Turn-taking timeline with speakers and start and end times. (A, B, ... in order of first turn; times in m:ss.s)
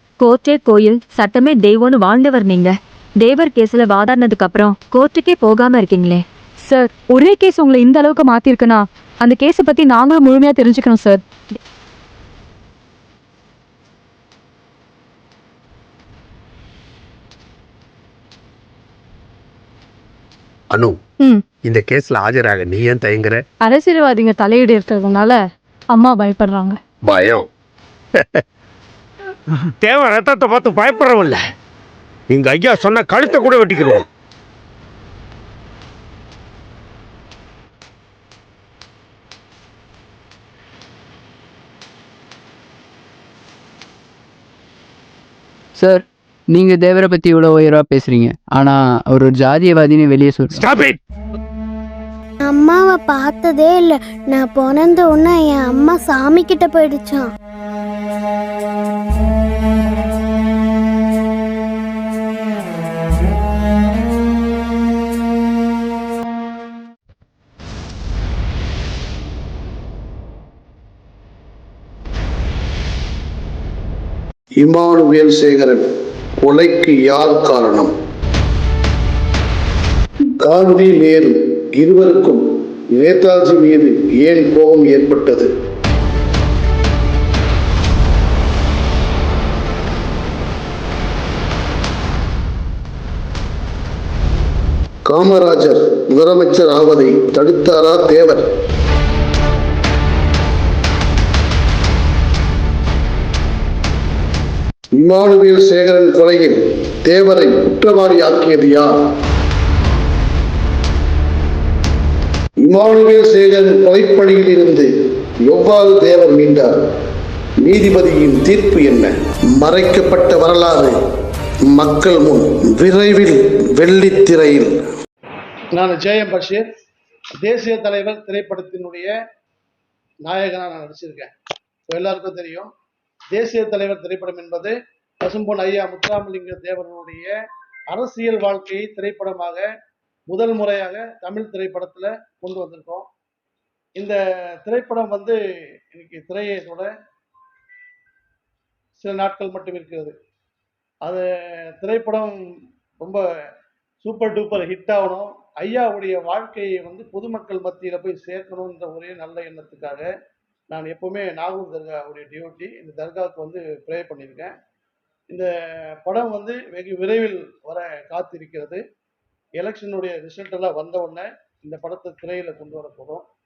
0:00.2-0:06.2 A
0:06.7-0:11.2 B
0:20.7-0:21.0 C
0:21.6-0:23.4 C
0:23.6-0:25.4 B
0:25.9-0:26.8 B
0:27.0-0:27.5 C
0:29.8-0:31.4 D
0:32.3-0:34.0 D
0:45.8-0:50.6 E
0:50.5-0:51.0 D
0:52.4-0:57.3 F
1:14.6-1:15.8 G
1:16.4-1:17.9 G
1:20.4-1:22.4 G
1:22.9-1:25.5 G
1:35.1-1:38.4 G
1:45.0-1:48.9 G
1:52.6-1:54.9 G
1:55.5-1:56.7 G
1:57.6-2:00.9 G
2:01.7-2:04.9 G
2:05.7-2:06.6 H
2:07.4-2:09.1 H
2:10.2-2:11.3 H
2:11.9-2:12.7 H
2:13.3-2:17.4 H
2:17.9-2:19.7 H
2:20.3-2:23.1 H
2:24.0-2:25.4 H
2:25.9-2:26.9 H
2:29.0-2:30.2 H
2:31.0-2:32.4 H
2:34.0-2:40.1 H
2:40.7-2:44.5 H
2:45.3-2:48.8 H
2:49.6-2:53.2 H